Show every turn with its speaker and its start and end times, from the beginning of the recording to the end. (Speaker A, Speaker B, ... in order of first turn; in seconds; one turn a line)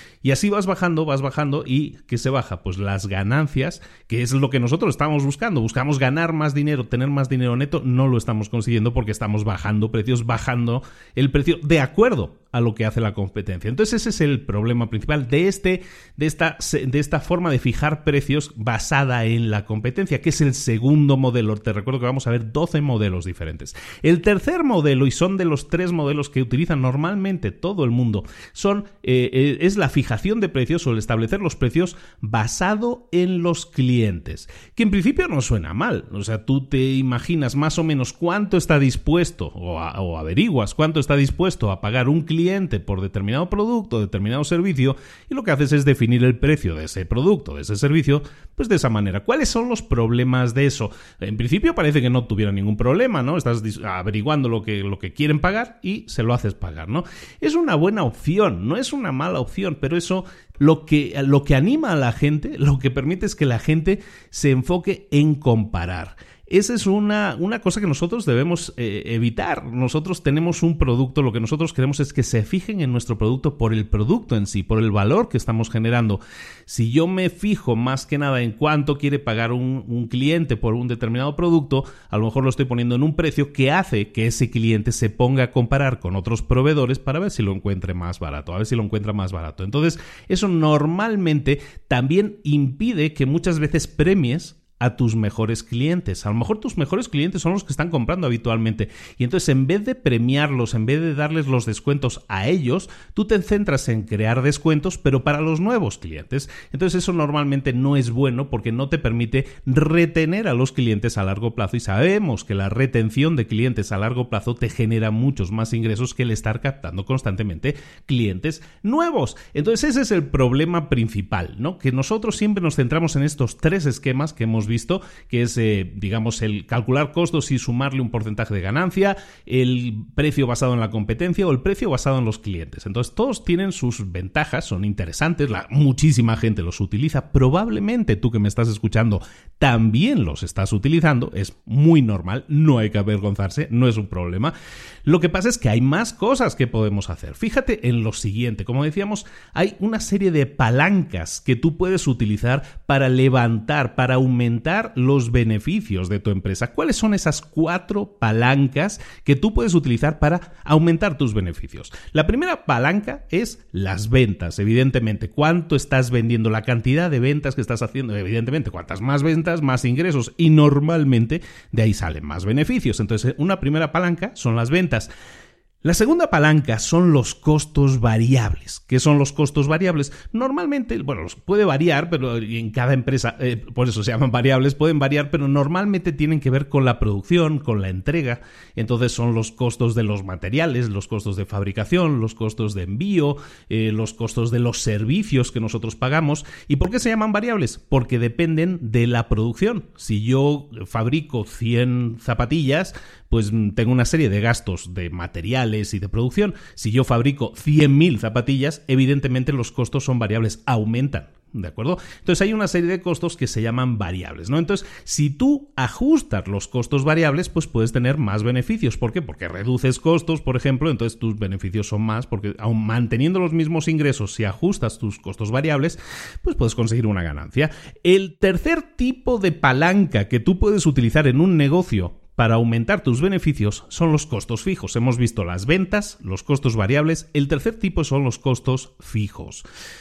Speaker A: 0.2-144.5
Speaker A: 145.0-175.1
Speaker A: 175.8-239.6